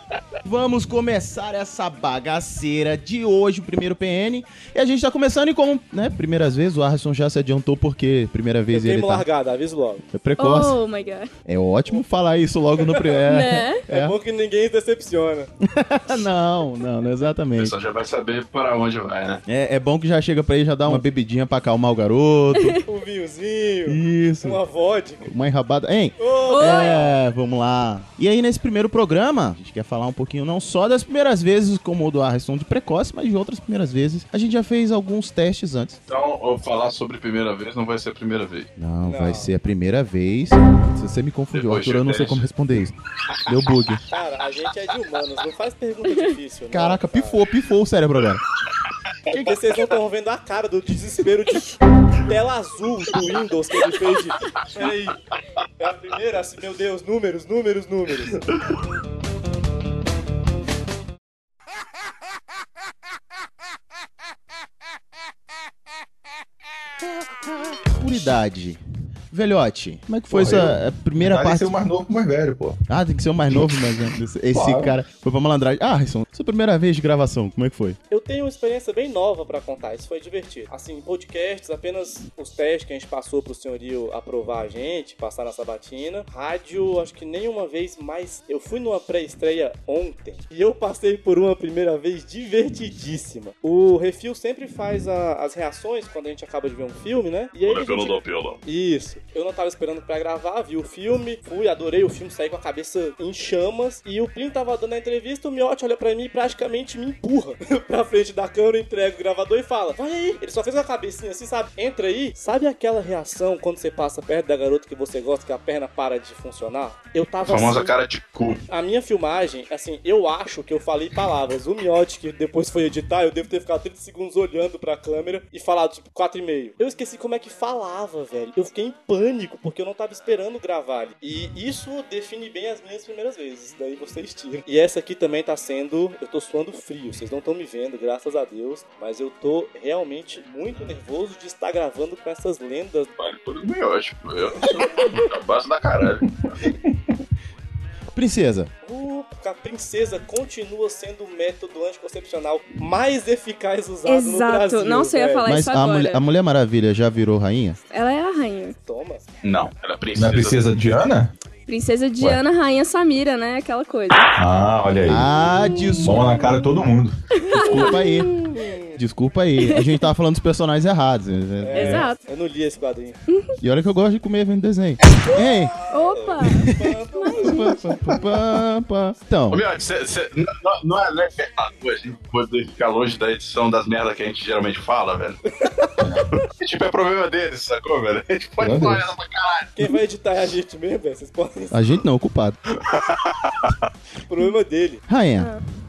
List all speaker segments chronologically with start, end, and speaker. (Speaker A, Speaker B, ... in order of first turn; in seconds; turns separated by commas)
Speaker A: 0.4-9.2, Speaker B: 8.7-10.0, Speaker A: 10.1-10.8, Speaker C: 10.4-11.3, Speaker A: 11.4-14.1, Speaker B: 12.8-13.2, Speaker C: 13.3-13.8, Speaker B: 13.9-15.5, Speaker A: 15.6-17.8, Speaker D: 17.6-19.4, Speaker A: 19.5-22.8, Speaker B: 22.9-25.3, Speaker A: 23.9-24.6, Speaker A: 25.2-36.0, Speaker B: 26.2-27.1, Speaker C: 26.5-27.0, Speaker D: 36.1-38.7, Speaker A: 38.8-44.0, Speaker B: 39.0-39.5, Speaker D: 41.5-42.5, Speaker B: 44.1-47.4, Speaker A: 46.7-48.4, Speaker B: 49.3-51.8, Speaker B: 52.3-55.2, Speaker B: 55.8-58.5, Speaker A: 67.2-71.7, Speaker E: 70.3-72.8, Speaker A: 72.9-78.0, Speaker E: 74.5-75.0, Speaker B: 78.1-117.9, Speaker D: 97.6-98.6, Speaker D: 117.4-118.6, Speaker B: 118.7-143.1, Speaker D: 143.2-146.3, Speaker A: 148.1-148.7, Speaker B: 148.8-155.4, Speaker C: 154.0-156.2, Speaker A: 155.4-157.8, Speaker C: 157.9-158.7, Speaker B: 158.8-159.3, Speaker D: 159.4-160.6, Speaker E: 160.2-161.3, Speaker C: 161.7-164.3, Speaker E: 164.4-165.3, Speaker A: 165.1-166.3, Speaker E: 166.0-167.2, Speaker C: 167.4-168.6, Speaker A: 167.5-168.3, Speaker B: 168.5-169.0, Speaker A: 169.0-172.0, Speaker C: 169.6-170.0, Speaker B: 171.6-173.2, Speaker C: 171.7-172.2, Speaker C: 173.3-173.5, Speaker A: 173.6-175.7, Speaker B: 175.3-177.9, Speaker C: 175.9-177.8, Speaker A: 176.7-179.6, Speaker D: 179.5-185.4, Speaker B: 185.6-185.9, Speaker E: 186.0-186.3, Speaker D: 186.4-189.7, Speaker E: 188.6-189.0, Speaker B: 189.8-191.9, Speaker A: 191.7-192.6, Speaker D: 192.8-193.7, Speaker B: 194.3-195.0, Speaker A: 195.1-195.5